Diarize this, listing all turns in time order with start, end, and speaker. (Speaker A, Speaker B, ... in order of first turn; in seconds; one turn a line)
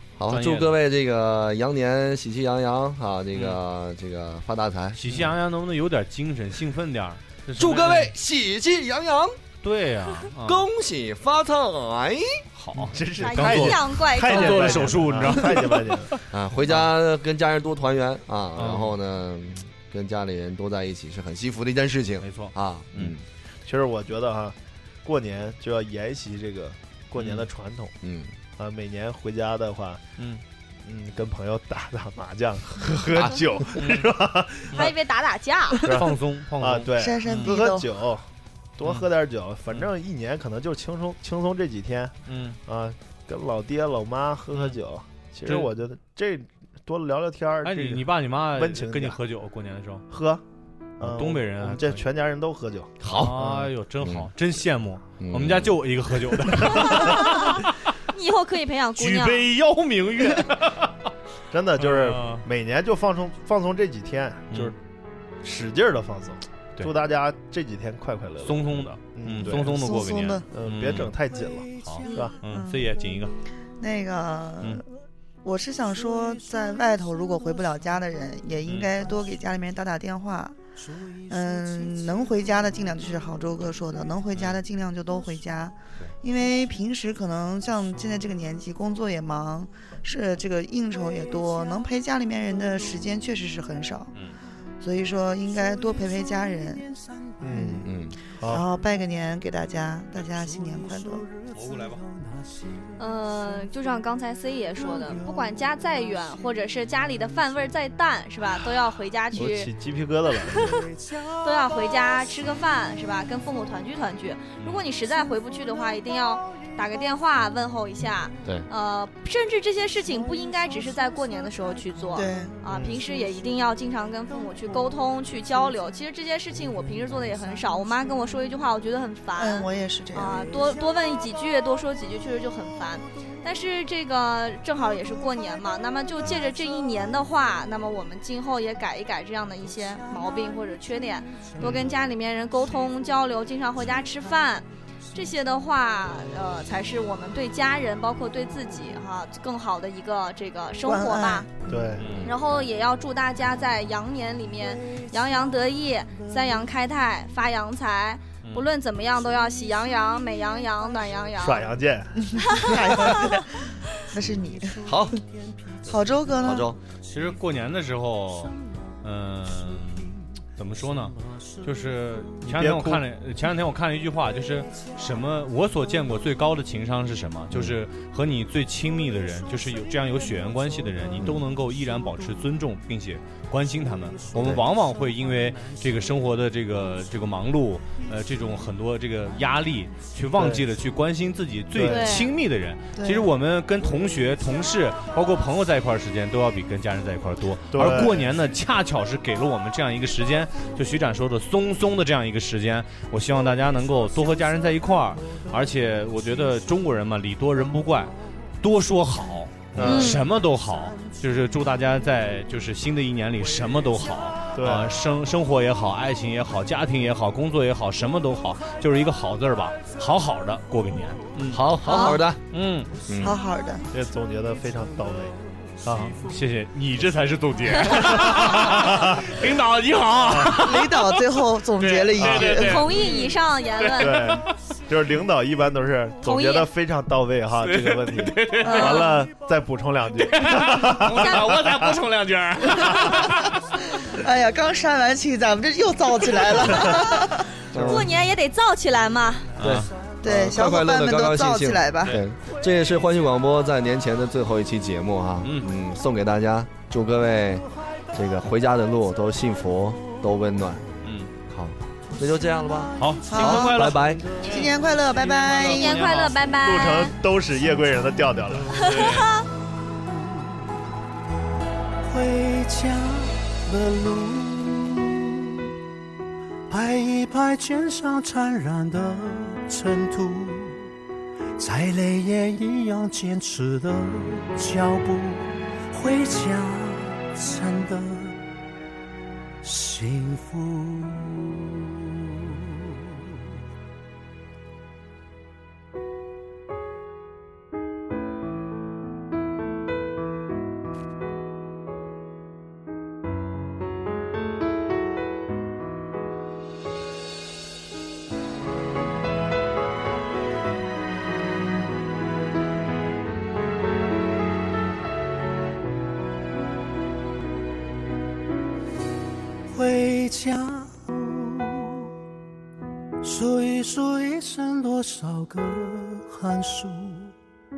Speaker A: 0.2-5.0
Speaker B: 0.3-0.7
Speaker B: 5.0-8.1
Speaker A: 7.6-9.4
Speaker B: 9.6-10.7
Speaker A: 10.4-12.4
Speaker B: 12.6-16.2
Speaker C: 12.8-16.1
Speaker D: 13.2-15.0
Speaker A: 16.3-23.2
Speaker B: 18.6-18.9
Speaker B: 22.2-23.2
Speaker C: 23.6-27.9
Speaker B: 27.2-27.5
Speaker A: 28.0-28.4
Speaker C: 28.6-30.0
Speaker C: 30.9-34.9
Speaker A: 33.1-33.4
Speaker B: 33.8-34.1
Speaker D: 34.7-35.9
Speaker C: 35.9-38.3
Speaker B: 35.9-37.6
Speaker E: 37.0-37.9
Speaker C: 38.8-42.1
Speaker B: 42.3-42.6
Speaker C: 42.7-49.2
Speaker B: 45.5-45.7
Speaker B: 47.6-50.0
Speaker C: 50.1-50.4
Speaker C: 51.0-53.7
Speaker B: 51.0-52.0
Speaker A: 53.0-53.5
Speaker B: 53.1-57.9
Speaker A: 54.0-54.3
Speaker A: 55.2-55.8
Speaker D: 56.6-59.5
Speaker B: 59.0-60.9
Speaker C: 61.5-64.8
Speaker B: 61.8-62.5
Speaker C: 65.4-72.4
Speaker B: 68.4-71.1
Speaker E: 69.6-70.5
Speaker B: 71.8-73.4
Speaker F: 71.9-72.3
Speaker E: 72.1-72.9
Speaker E: 73.8-74.8
Speaker E: 75.4-80.6
Speaker F: 75.9-78.1
Speaker B: 78.7-78.9
Speaker F: 79.1-79.3
Speaker F: 80.9-83.4
Speaker E: 81.3-94.1
Speaker B: 84.3-84.6
Speaker F: 85.2-85.4
Speaker F: 88.0-88.2
Speaker F: 90.9-93.1
Speaker E: 94.8-96.8
Speaker F: 95.1-97.7
Speaker C: 97.4-97.9
Speaker E: 97.5-97.9
Speaker A: 97.8-98.2
Speaker C: 98.4-98.7
Speaker E: 98.5-101.3
Speaker F: 100.1-103.7
Speaker B: 101.5-102.0
Speaker D: 103.0-109.7
Speaker F: 104.8-106.5
Speaker C: 109.3-110.8
Speaker D: 111.4-151.5
Speaker E: 122.2-122.6
Speaker C: 122.7-123.0
Speaker E: 129.4-130.5
Speaker C: 141.6-141.9
Speaker E: 150.8-151.5
Speaker C: 151.7-152.2
Speaker B: 152.0-152.3
Speaker D: 152.2-161.7
Speaker B: 158.4-158.7
Speaker C: 161.4-162.2
Speaker E: 162.2-163.6
Speaker D: 162.4-163.4
Speaker F: 162.8-163.2
Speaker E: 164.1-164.8
Speaker F: 164.1-166.6
Speaker A: 164.8-165.2
Speaker E: 165.9-166.7
Speaker A: 166.4-166.8
Speaker B: 167.1-222.9
Speaker C: 172.4-173.1
Speaker A: 177.5-177.8
Speaker F: 180.2-180.6
Speaker A: 181.2-181.4
Speaker F: 184.1-185.9
Speaker A: 184.3-184.6
Speaker C: 190.4-190.7
Speaker C: 191.7-192.2
Speaker D: 191.9-192.3
Speaker E: 192.9-193.3
Speaker C: 197.7-198.3
Speaker C: 209.8-210.2
Speaker D: 209.8-210.3
Speaker C: 214.6-215.0
Speaker A: 221.5-222.4
Speaker D: 221.9-222.2
Speaker E: 221.9-222.2
Speaker A: 223.1-223.4
Speaker E: 223.2-223.9
Speaker C: 223.9-226.2
Speaker B: 225.9-231.2
Speaker C: 227.8-229.4
Speaker C: 230.2-230.7
Speaker E: 230.5-232.9
Speaker B: 231.8-234.5
Speaker C: 232.2-232.6
Speaker D: 232.4-234.4
Speaker C: 234.0-242.0
Speaker D: 236.2-236.7
Speaker B: 237.6-239.2
Speaker E: 238.6-239.2
Speaker B: 240.2-243.6
Speaker E: 243.9-247.6
Speaker D: 246.6-249.5
Speaker A: 247.7-248.2
Speaker B: 249.6-249.9
Speaker A: 249.6-260.8
Speaker E: 250.2-252.2
Speaker B: 255.4-255.7
Speaker B: 261.0-261.3
Speaker A: 261.5-264.3
Speaker B: 263.0-266.5
Speaker E: 263.3-263.9
Speaker E: 264.4-266.1
Speaker D: 265.6-267.1
Speaker C: 266.6-268.8
Speaker D: 268.7-269.5
Speaker B: 268.7-269.3
Speaker F: 272.0-275.3
Speaker F: 276.7-280.9
Speaker F: 281.6-288.4
Speaker F: 289.6-291.7
Speaker F: 319.7-322.1
Speaker F: 323.2-327.3